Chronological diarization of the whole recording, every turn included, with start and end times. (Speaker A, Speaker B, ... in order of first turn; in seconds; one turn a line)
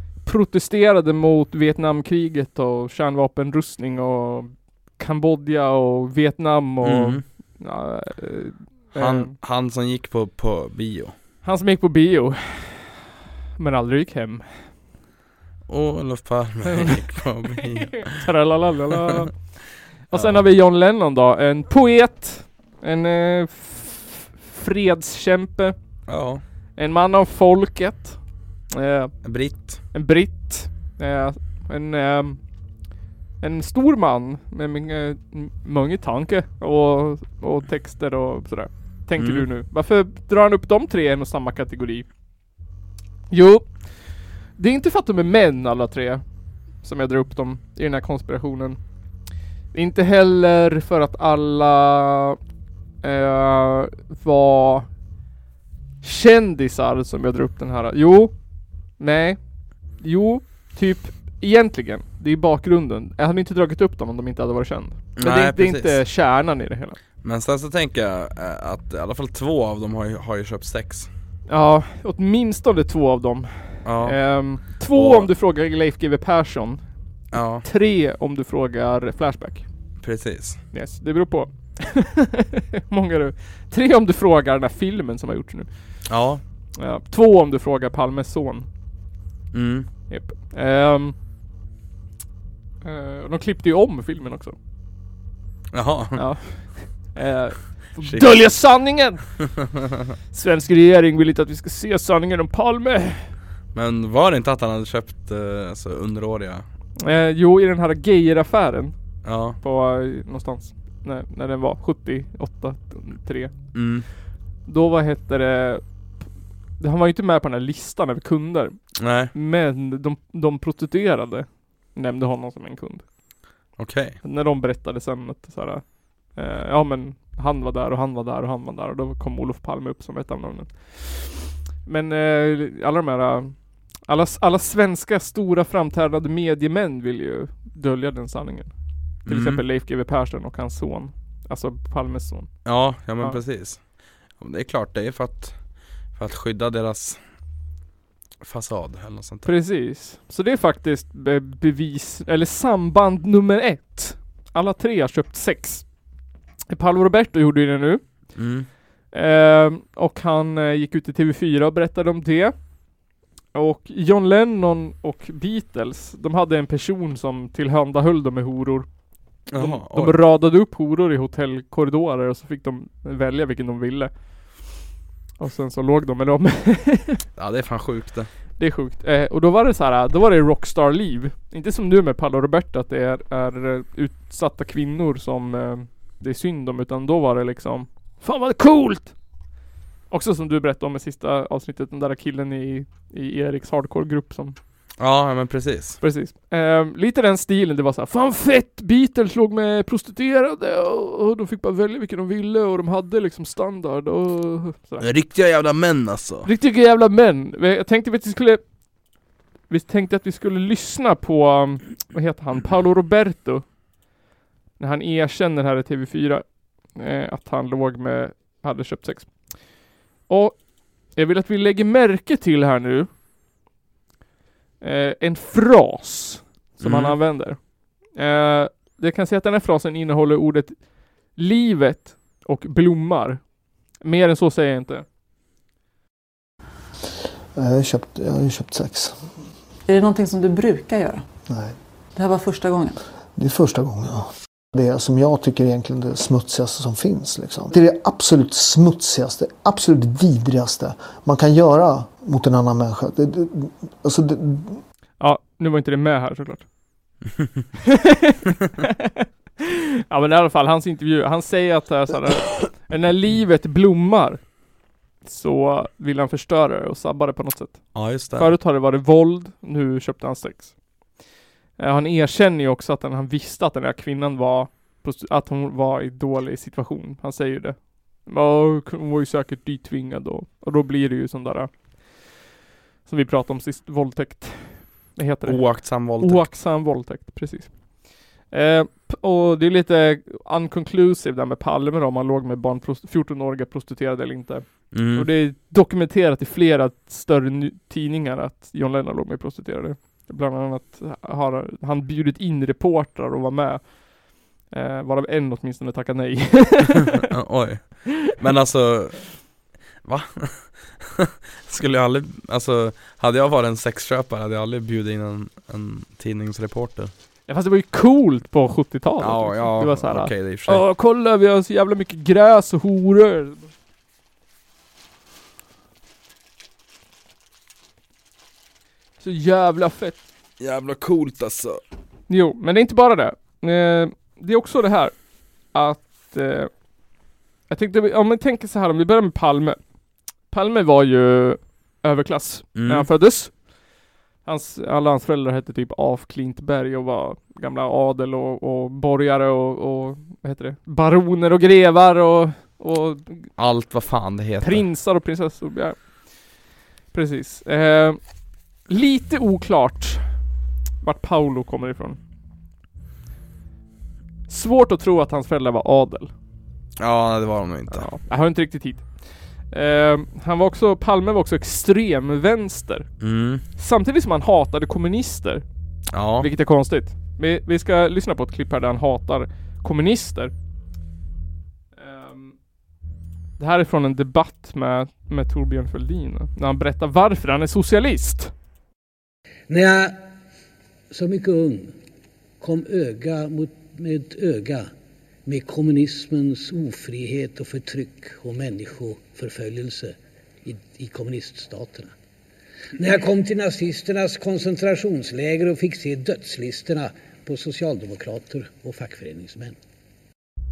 Speaker A: 0.2-9.3
Speaker B: 6.8-7.2
Speaker B: 8.9-11.1
Speaker A: 11.4-13.1
Speaker A: 13.6-14.7
Speaker B: 15.7-18.2
Speaker A: 16.7-19.3
Speaker B: 18.9-19.3
Speaker B: 20.1-20.4
Speaker A: 20.1-25.8
Speaker B: 26.1-26.4
Speaker A: 26.8-28.2
Speaker A: 28.7-29.2
Speaker B: 29.2-29.8
Speaker A: 29.9-32.4
Speaker A: 33.4-42.1
Speaker B: 39.2-39.5
Speaker A: 43.3-43.7
Speaker A: 44.6-46.2
Speaker A: 46.8-48.8
Speaker A: 49.7-52.4
Speaker A: 53.0-54.9
Speaker A: 56.0-58.3
Speaker A: 59.0-59.4
Speaker A: 60.0-67.0
Speaker B: 65.2-66.0
Speaker B: 67.2-71.1
Speaker A: 71.5-76.8
Speaker B: 73.8-74.2
Speaker B: 74.9-75.3
Speaker B: 77.3-77.7
Speaker A: 77.6-79.7
Speaker B: 80.0-80.6
Speaker A: 80.7-85.7
Speaker B: 86.1-86.4
Speaker A: 86.8-88.7
Speaker B: 89.5-89.9
Speaker A: 90.1-91.2
Speaker A: 92.8-94.5
Speaker B: 95.7-96.3
Speaker A: 96.2-99.2
Speaker B: 98.0-98.3
Speaker B: 99.6-100.1
Speaker A: 100.3-103.3
Speaker B: 103.7-106.7
Speaker A: 107.0-109.0
Speaker B: 109.2-109.6
Speaker A: 109.6-113.5
Speaker B: 113.7-114.1
Speaker A: 114.7-115.8
Speaker A: 116.8-118.8
Speaker B: 119.0-119.3
Speaker A: 119.3-123.0
Speaker B: 123.8-124.2
Speaker A: 124.2-133.5
Speaker A: 134.1-138.7
Speaker B: 139.3-139.6
Speaker A: 139.3-142.5
Speaker B: 142.7-143.8
Speaker B: 144.4-145.6
Speaker B: 146.2-147.2
Speaker B: 148.4-149.5
Speaker A: 149.5-155.9
Speaker A: 156.7-158.0
Speaker B: 158.4-158.7
Speaker A: 159.1-162.5
Speaker A: 163.5-168.9
Speaker B: 169.5-170.2
Speaker A: 169.5-174.1
Speaker A: 175.4-177.2
Speaker B: 177.4-178.3
Speaker A: 178.6-189.1
Speaker A: 190.1-194.6
Speaker B: 195.0-196.0
Speaker A: 196.0-205.0
Speaker B: 205.0-206.5
Speaker A: 206.4-208.6
Speaker A: 209.7-213.7
Speaker A: 214.8-216.4
Speaker A: 216.9-219.3
Speaker A: 220.3-220.6
Speaker A: 221.2-223.1
Speaker A: 224.8-227.6
Speaker B: 226.8-227.2
Speaker A: 228.1-230.8
Speaker A: 231.3-233.4
Speaker A: 234.0-235.1
Speaker C: 237.6-239.2
Speaker D: 239.9-241.3
Speaker C: 241.5-241.8
Speaker D: 242.2-243.0
Speaker C: 243.3-254.8
Speaker A: 255.2-256.7
Speaker A: 257.9-264.4
Speaker A: 265.2-270.7
Speaker B: 267.9-268.5
Speaker A: 271.8-281.7
Speaker A: 283.1-285.6
Speaker B: 285.5-286.5
Speaker A: 286.2-287.7
Speaker A: 288.5-303.9
Speaker B: 294.9-295.3
Speaker A: 304.7-307.3
Speaker B: 307.1-309.2
Speaker B: 310.1-317.1
Speaker A: 317.5-323.7
Speaker B: 319.2-320.9
Speaker A: 329.2-330.2
Speaker B: 330.6-331.8
Speaker A: 332.3-335.1
Speaker A: 335.7-336.7
Speaker A: 337.7-339.8
Speaker A: 340.5-343.5
Speaker B: 342.8-343.1
Speaker A: 344.4-353.5
Speaker B: 353.6-354.8
Speaker A: 354.6-356.0
Speaker A: 357.1-358.2
Speaker A: 358.9-360.3
Speaker A: 361.0-362.2
Speaker A: 364.5-366.3
Speaker B: 367.0-368.1
Speaker A: 367.9-369.1
Speaker A: 369.7-373.1
Speaker B: 373.2-373.6
Speaker A: 373.8-375.6
Speaker B: 376.1-376.5
Speaker A: 376.4-380.5
Speaker A: 382.0-382.6
Speaker A: 383.6-388.5
Speaker E: 389.7-390.2
Speaker E: 391.1-392.0
Speaker E: 392.6-394.9
Speaker E: 395.5-402.1
Speaker E: 403.0-409.8